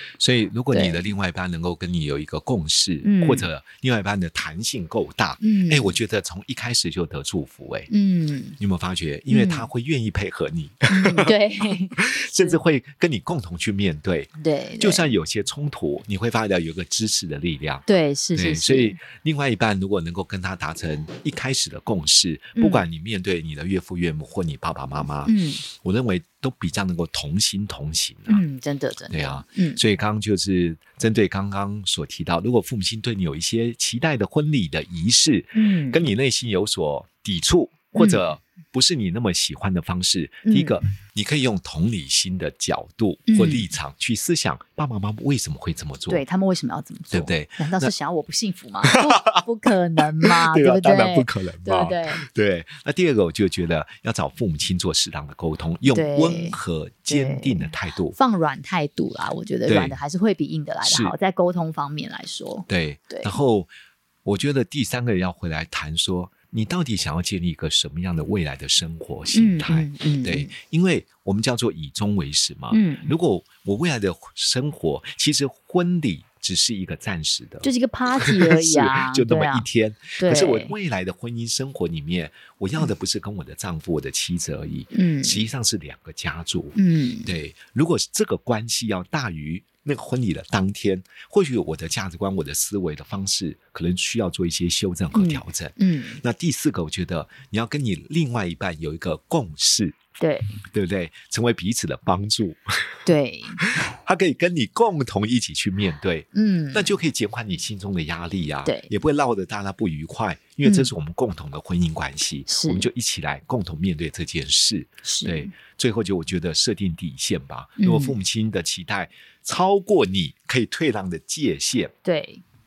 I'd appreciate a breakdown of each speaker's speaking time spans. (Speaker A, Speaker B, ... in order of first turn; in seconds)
Speaker A: 0.2-7.9, 8.6-11.3, 12.0-28.4, 29.1-46.2, 47.1-47.9, 48.8-49.1, 50.2-58.1, 59.7-60.0, 60.8-61.1, 62.7-63.7, 64.2-77.7, 78.2-100.0, 100.7-103.0, 103.6-121.9
Speaker B: 0.7-1.0, 3.0-3.5, 5.4-6.0, 7.9-8.6, 9.3-9.7, 10.9-12.0, 14.4-15.1, 17.9-19.0, 22.6-22.9, 25.2-25.6, 28.3-29.8, 35.5-36.0, 38.0-38.2, 40.5-40.8, 43.3-43.7, 46.1-52.2, 55.9-63.4, 69.3-70.5, 72.7-73.1, 77.6-79.7, 80.2-80.8, 84.9-85.5, 86.8-87.3, 95.1-96.2, 100.2-100.6, 103.0-103.6, 106.3-106.9, 108.7-108.9, 110.6-110.9, 112.5-112.9, 115.0-115.5, 117.8-118.2, 122.0-122.4